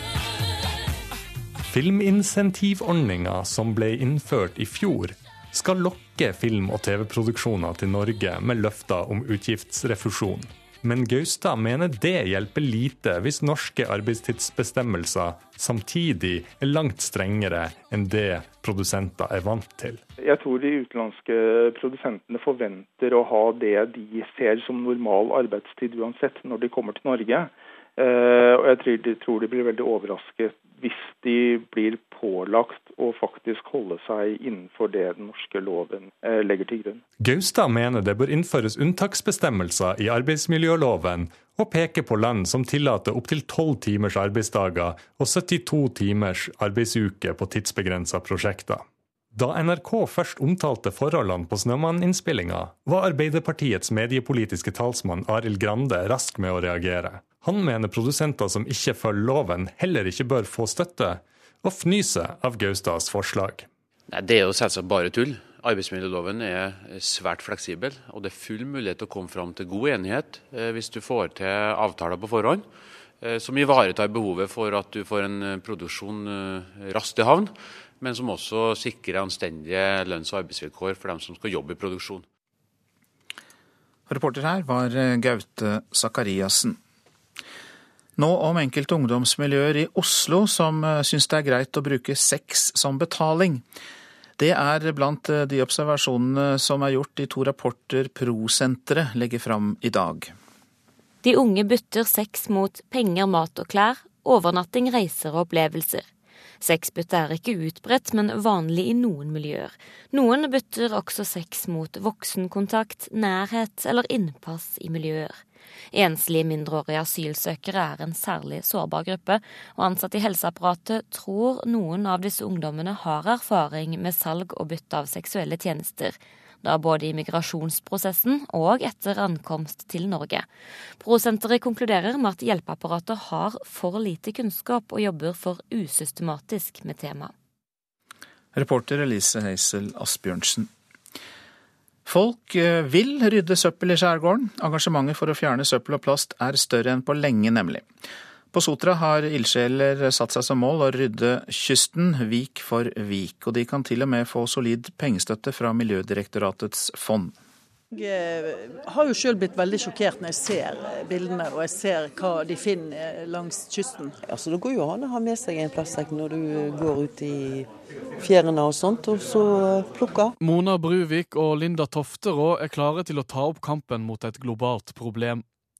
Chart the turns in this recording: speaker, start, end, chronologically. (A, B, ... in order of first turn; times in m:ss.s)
0:01.7-0:20.0 A
0:20.2-0:37.0 B
0:37.2-1:03.7 A
1:04.1-1:12.7 C
1:13.2-1:22.2 C
1:24.1-1:26.8 D
1:28.2-1:33.6 D
1:34.4-1:40.3 D
1:41.2-1:46.1 E
1:46.6-1:55.4 E
1:55.9-2:10.5 E
2:11.0-2:17.3 E
2:18.5-2:20.7 D
2:22.0-2:27.8 D
2:28.5-2:37.4 D
2:37.9-2:44.2 F
2:44.2-2:50.3 G
2:50.4-2:55.4 H